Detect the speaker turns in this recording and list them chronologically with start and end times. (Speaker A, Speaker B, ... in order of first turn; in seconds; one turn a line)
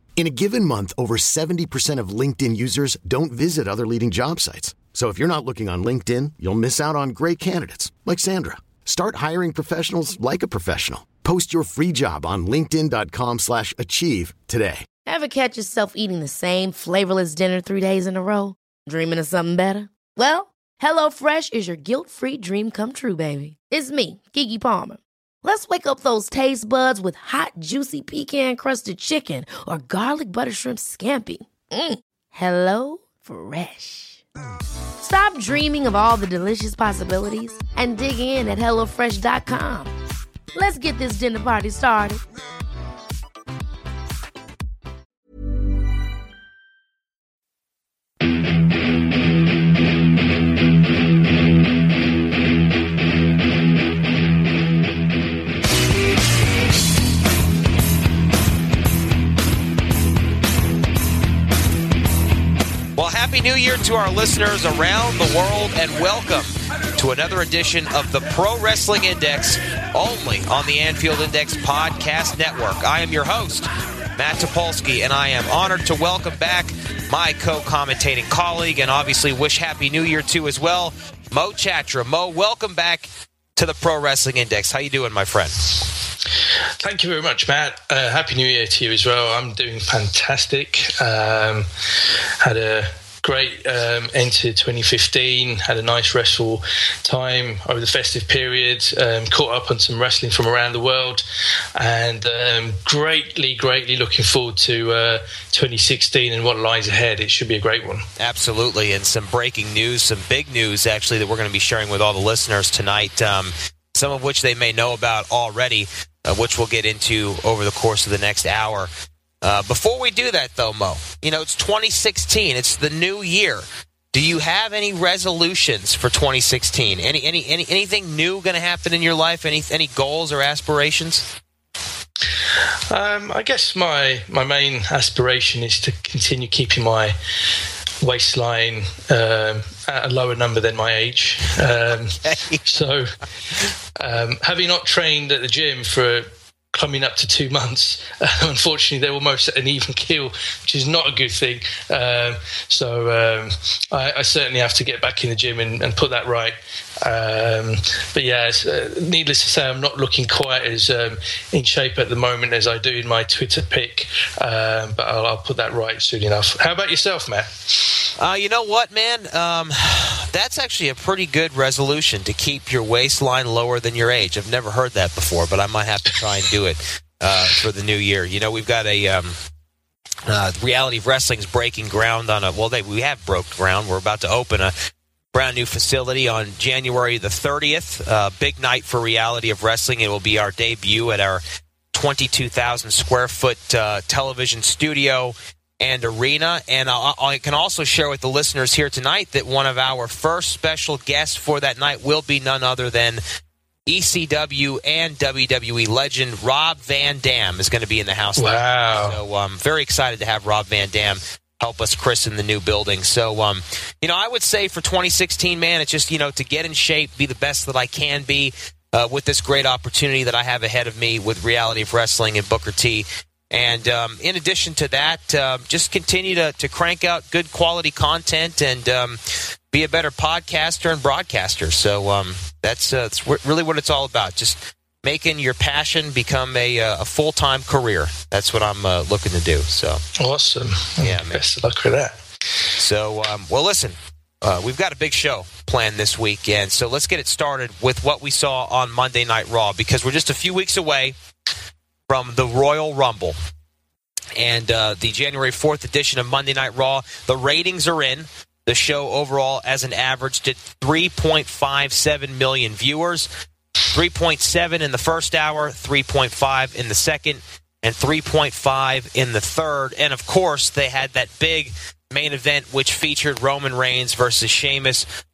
Speaker A: 0.2-14.8
Speaker B: 15.1-34.2
Speaker B: 35.0-39.9
Speaker B: 40.5-42.2
Speaker C: 63.0-85.5
Speaker D: 86.8-91.7
Speaker D: 92.4-101.2
Speaker D: 101.8-108.0
Speaker C: 108.2-118.9
Speaker C: 119.4-131.2
Speaker D: 132.9-137.2
Speaker D: 138.0-143.2
Speaker C: 142.2-142.6
Speaker D: 144.0-168.0
Speaker C: 168.2-179.3
Speaker C: 180.3-184.7
Speaker C: 185.3-203.2
Speaker C: 203.9-229.2
Speaker D: 208.4-209.2
Speaker C: 229.7-240.0
Speaker D: 240.2-242.2
Speaker C: 241.0-241.4
Speaker C: 242.8-251.2
Speaker C: 252.1-253.4
Speaker C: 254.3-263.3
Speaker C: 263.9-275.1